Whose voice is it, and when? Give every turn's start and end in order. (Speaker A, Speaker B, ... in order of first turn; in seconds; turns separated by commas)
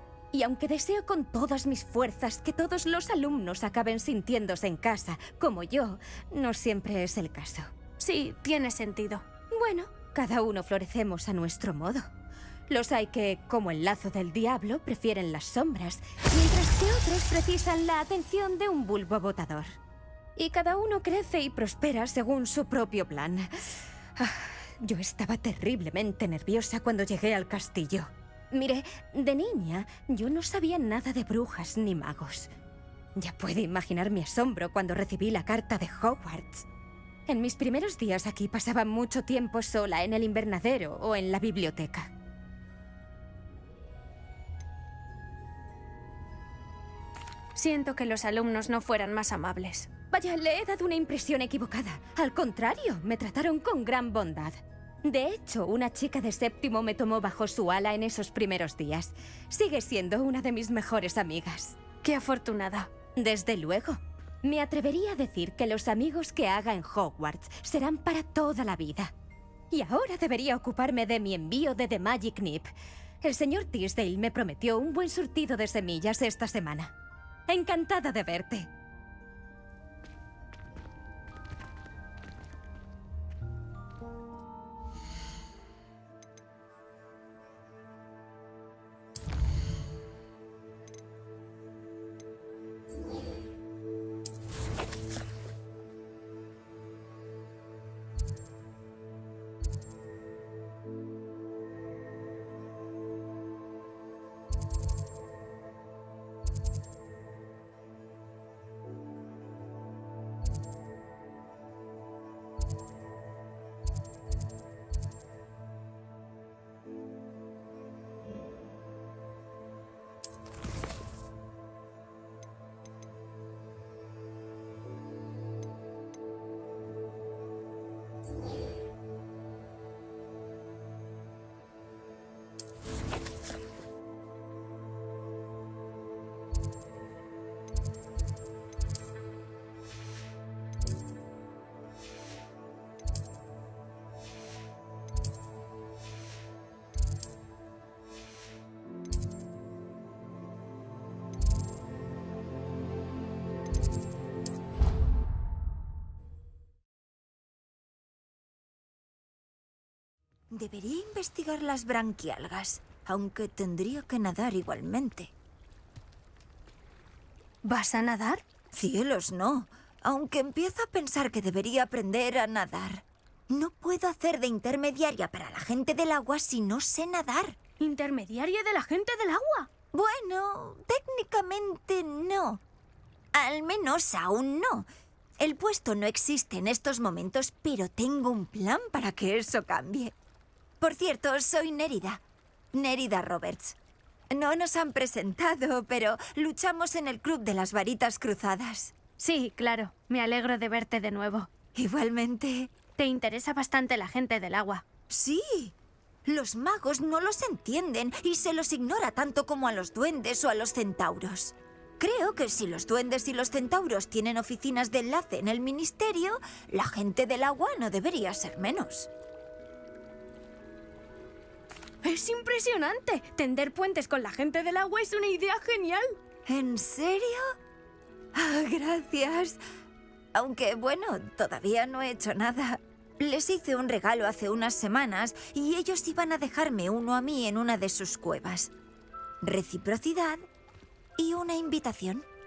Speaker A: 0.3-7.7, Speaker B: 8.0-9.2, Speaker A: 9.5-12.1, Speaker A: 12.7-19.8, Speaker A: 20.4-32.5, Speaker A: 33.1-36.6, Speaker A: 37.3-42.1, Speaker B: 47.5-49.9, Speaker A: 50.1-61.8, Speaker B: 62.0-62.9, Speaker A: 63.1-69.1, Speaker A: 69.7-72.7, Speaker A: 73.2-76.9, Speaker A: 77.5-78.7, Speaker C: 160.5-165.3, Speaker B: 167.6-168.4, Speaker C: 168.7-177.6, Speaker B: 177.8-179.7, Speaker C: 179.9-182.6, Speaker C: 183.3-190.1, Speaker C: 190.8-192.2, Speaker C: 192.7-193.8, Speaker C: 194.3-198.9, Speaker B: 199.2-201.5, Speaker C: 201.7-202.7, Speaker B: 203.0-204.8, Speaker C: 205.1-205.7, Speaker C: 206.2-219.1, Speaker B: 222.0-226.2, Speaker C: 226.4-227.5, Speaker C: 228.3-229.6, Speaker C: 230.3-238.7, Speaker C: 239.4-240.4, Speaker C: 241.2-242.2